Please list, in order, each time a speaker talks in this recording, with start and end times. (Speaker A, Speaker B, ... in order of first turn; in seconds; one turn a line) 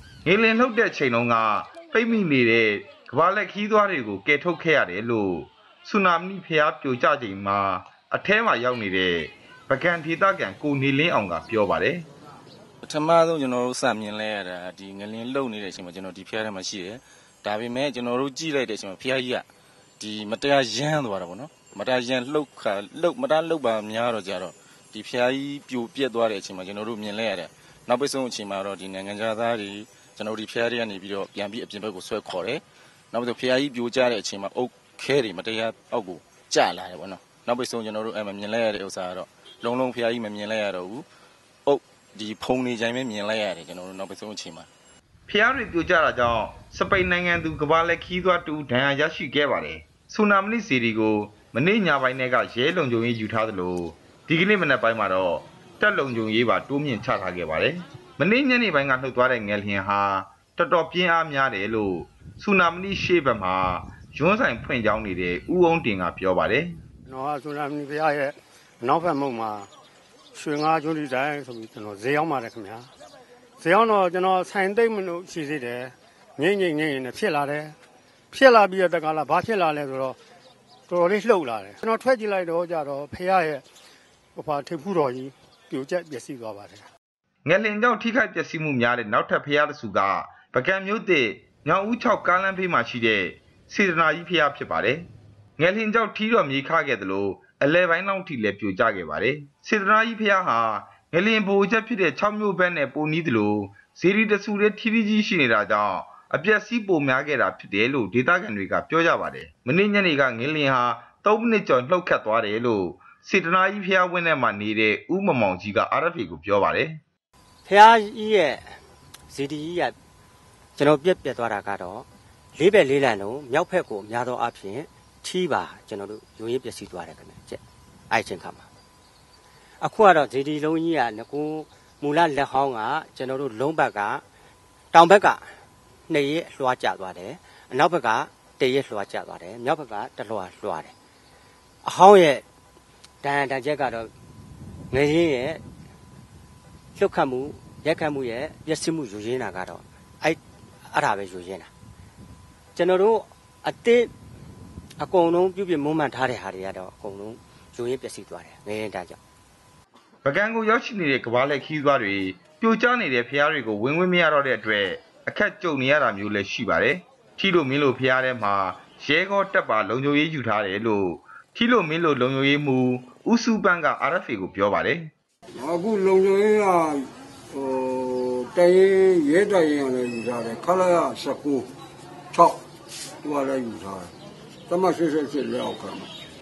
Speaker A: 0.3-12.1
Speaker B: 12.8-19.5
Speaker B: 20.0-41.1
Speaker B: 41.7-44.7
Speaker A: 45.3-66.8
Speaker C: 67.1-69.7
Speaker C: 70.3-72.9
Speaker C: 73.6-77.8
Speaker C: 78.3-80.2
Speaker C: 80.9-83.6
Speaker C: 84.4-86.8
Speaker A: 87.5-95.1
Speaker A: 95.6-117.0
Speaker D: 117.7-118.8
Speaker D: 119.3-120.0
Speaker D: 120.8-128.7
Speaker D: 129.8-134.2
Speaker D: 134.9-135.6
Speaker D: 136.1-140.9
Speaker D: 141.8-142.4
Speaker D: 143.2-144.1
Speaker D: 144.9-145.6
Speaker D: 147.0-151.7
Speaker D: 152.8-154.1
Speaker D: 155.0-159.2
Speaker A: 160.2-175.1
Speaker E: 175.6-181.7
Speaker E: 182.3-182.6
Speaker E: 183.2-184.1
Speaker E: 184.7-186.1